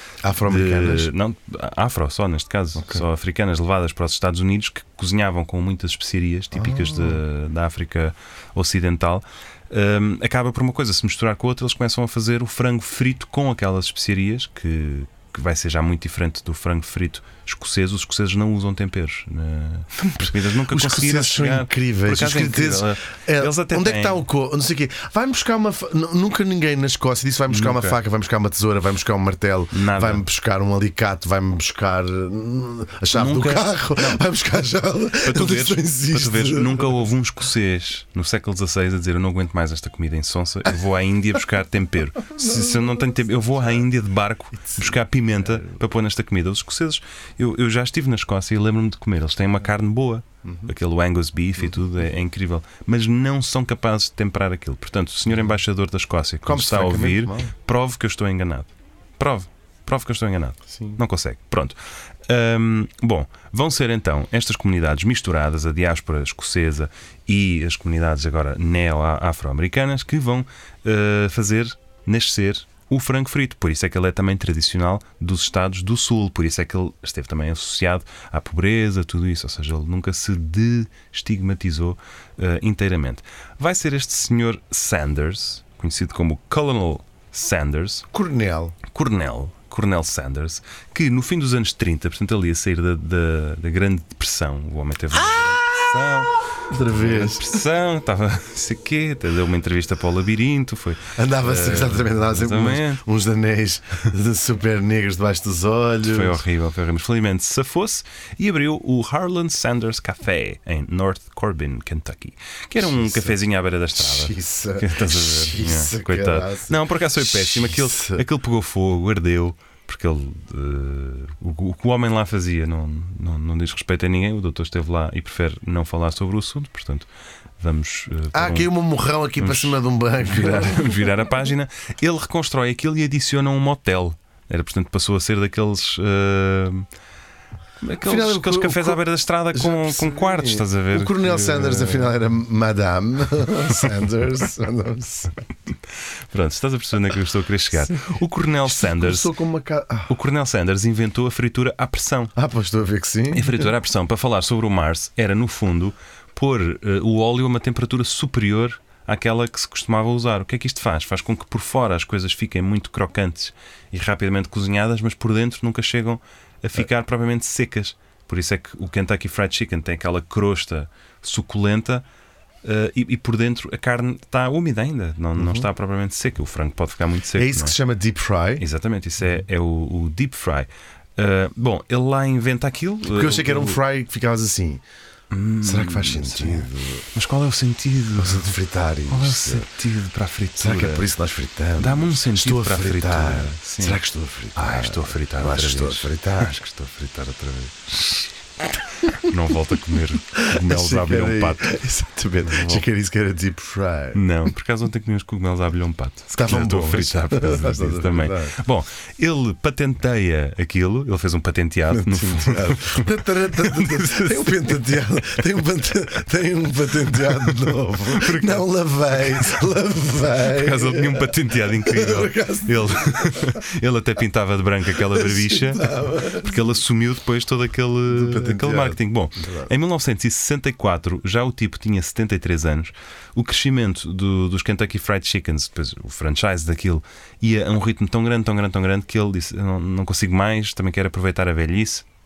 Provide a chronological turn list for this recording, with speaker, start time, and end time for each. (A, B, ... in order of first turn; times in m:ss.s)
0:00.2-0:01.1 A
0:00.4-0:24.2 B
0:02.8-0:03.0 A
0:06.5-0:07.2 A
0:20.0-0:37.0 A
0:27.5-0:28.0 B
0:29.7-0:30.2 B
0:33.1-0:34.2 B
0:35.2-1:28.1 B
0:42.4-0:43.8 A
0:44.7-0:45.7 A
0:50.4-0:50.7 A
0:56.4-0:57.5 A
1:00.7-1:01.0 A
1:28.1-1:28.8 A
1:28.9-1:43.0 B
1:35.3-1:35.8 A
1:36.7-1:37.5 A
1:41.2-1:46.4 A
1:46.0-2:07.1 B
1:52.8-1:53.4 A
1:54.0-1:58.2 A
2:07.6-2:08.7 B
2:08.3-2:11.0 A
2:09.4-2:16.9 B
2:17.8-2:22.1 B
2:18.0-2:19.0 A
2:19.5-2:25.4 A
2:26.3-2:29.3 B
2:28.7-2:30.1 A
2:30.1-2:32.3 B
2:32.4-2:33.7 A
2:33.3-2:52.1 B
2:52.6-2:57.8 B
2:55.4-2:55.7 A
2:57.4-2:58.6 A
2:58.6-3:03.8 B
3:03.1-3:04.8 A
3:05.3-3:08.5 B
3:05.6-3:07.1 A
3:08.2-3:09.7 A
3:09.1-3:11.1 B
3:10.6-3:16.5 A
3:11.8-3:14.0 B
3:14.6-3:18.3 B
3:19.0-3:21.7 B
3:20.4-3:24.2 A
3:22.5-3:22.8 B
3:24.1-3:34.8 B
3:26.3-3:28.6 A
3:31.9-3:43.6 A
3:37.3-3:39.6 B
3:40.5-4:02.0 B
3:45.0-3:46.6 A
3:48.1-3:49.7 A